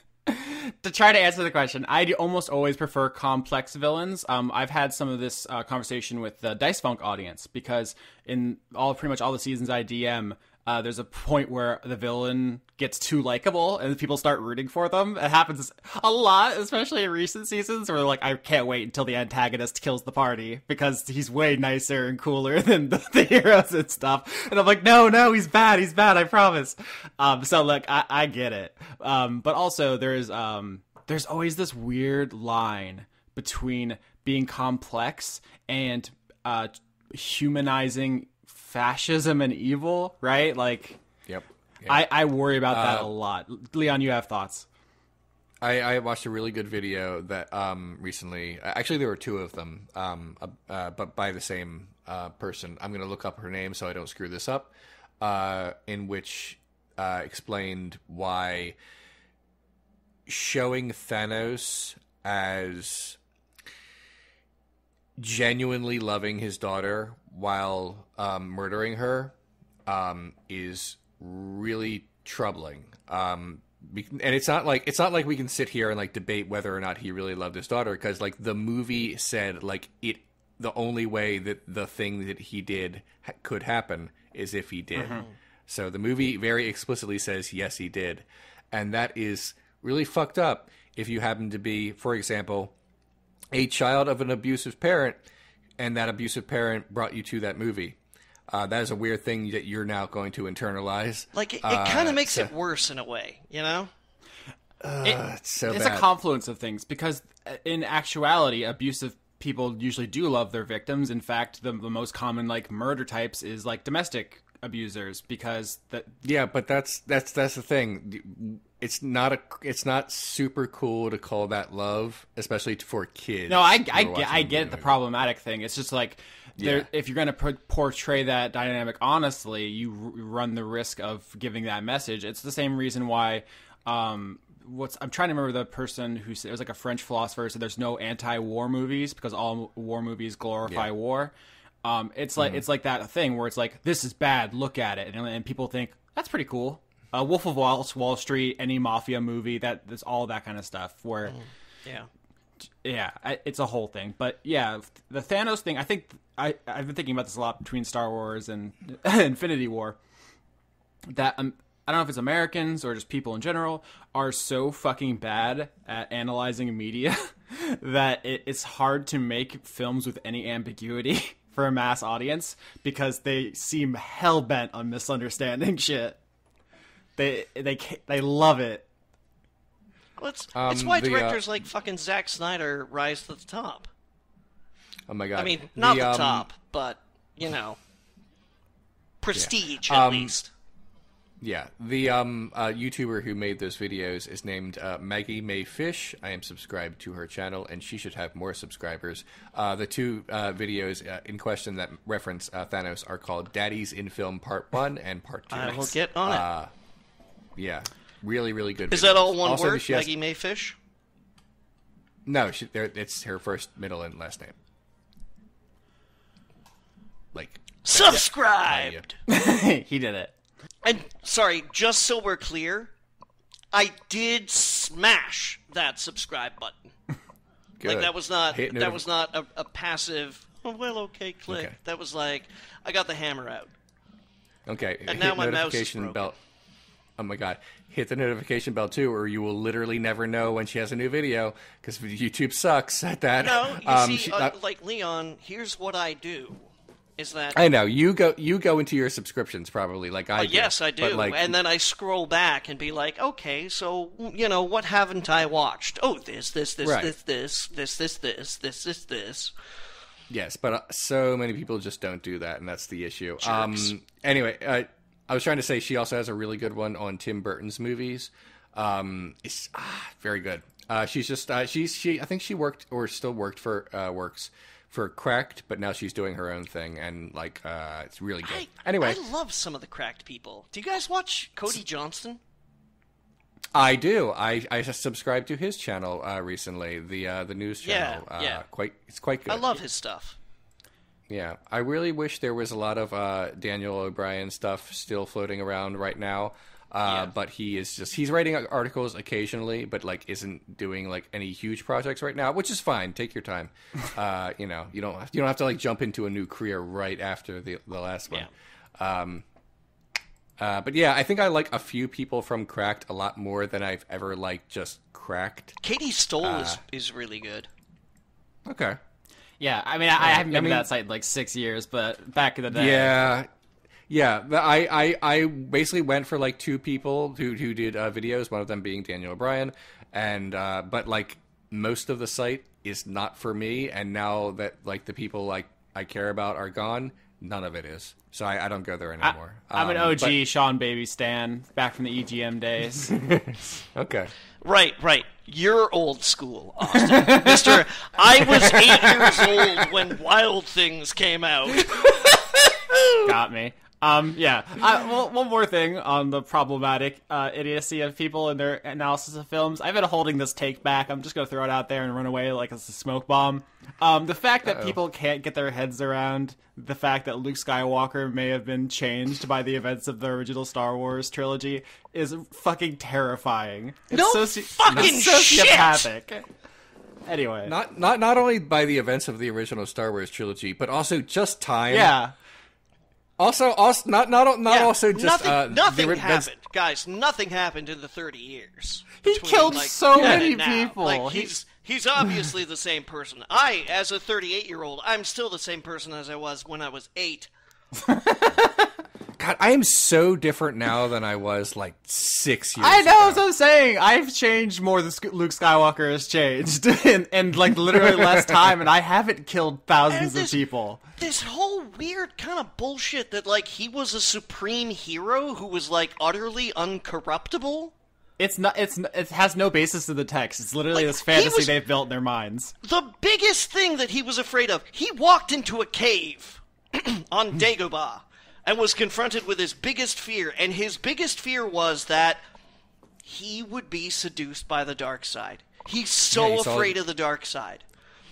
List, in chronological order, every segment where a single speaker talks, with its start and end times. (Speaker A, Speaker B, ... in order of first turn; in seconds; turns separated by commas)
Speaker A: 0.3-41.0, Speaker B: 41.3-42.1, Speaker A: 41.9-44.7, Speaker B: 42.7-43.1, Speaker B: 45.6-58.8, Speaker B: 60.3-63.2, Speaker B: 65.2-69.3, Speaker B: 69.9-92.7, Speaker B: 93.5-95.2, Speaker B: 95.8-98.0, Speaker B: 98.5-102.5, Speaker C: 101.3-103.9, Speaker B: 104.8-106.1, Speaker A: 105.0-116.2, Speaker B: 116.2-125.0, Speaker A: 123.5-141.3, Speaker B: 126.6-126.9, Speaker A: 141.8-151.4, Speaker C: 151.3-152.1, Speaker A: 152.8-160.0, Speaker A: 161.1-176.2, Speaker A: 177.2-178.9, Speaker C: 180.2-183.9, Speaker B: 180.6-181.4, Speaker B: 185.1-186.5, Speaker C: 185.4-187.8, Speaker C: 189.2-190.5, Speaker B: 189.3-190.3, Speaker B: 191.4-206.7, Speaker C: 205.5-206.4, Speaker B: 207.6-210.1, Speaker C: 208.9-210.8, Speaker B: 212.3-214.6, Speaker B: 217.3-219.1, Speaker C: 217.8-219.1, Speaker A: 219.3-220.3, Speaker C: 220.8-222.9, Speaker C: 223.7-226.8, Speaker B: 227.8-229.0, Speaker C: 227.8-233.7, Speaker B: 231.5-231.8, Speaker B: 234.7-236.3, Speaker C: 235.1-236.4, Speaker B: 237.2-244.6, Speaker C: 243.4-246.6, Speaker C: 247.2-247.7, Speaker B: 247.5-251.6, Speaker C: 250.4-259.5, Speaker B: 256.8-257.1, Speaker B: 260.3-279.2, Speaker C: 263.4-263.9, Speaker C: 278.4-282.4, Speaker B: 283.7-289.6, Speaker C: 287.8-288.6, Speaker C: 289.5-290.4, Speaker B: 291.3-309.4, Speaker C: 297.1-297.3, Speaker B: 310.6-315.8, Speaker C: 315.8-317.7, Speaker B: 316.4-316.8, Speaker B: 318.7-319.0, Speaker A: 319.6-323.2, Speaker B: 320.2-320.9, Speaker B: 322.7-323.5, Speaker B: 324.1-340.4, Speaker A: 339.2-343.2, Speaker B: 343.1-344.3, Speaker C: 344.6-352.1, Speaker A: 347.1-347.7, Speaker B: 348.5-349.9, Speaker A: 353.3-376.4, Speaker B: 364.7-365.0, Speaker C: 374.1-376.1, Speaker B: 374.9-375.9, Speaker A: 377.3-377.7, Speaker B: 377.7-382.1, Speaker A: 381.9-382.3, Speaker B: 383.4-386.5, Speaker C: 384.7-397.5, Speaker A: 389.2-391.5, Speaker A: 398.0-398.9, Speaker B: 399.4-403.4, Speaker A: 402.8-411.0, Speaker B: 407.9-408.7, Speaker C: 410.1-410.6, Speaker C: 411.2-417.9, Speaker A: 418.4-422.8, Speaker C: 420.9-421.8, Speaker C: 422.8-432.4, Speaker C: 433.2-437.8, Speaker B: 436.3-437.0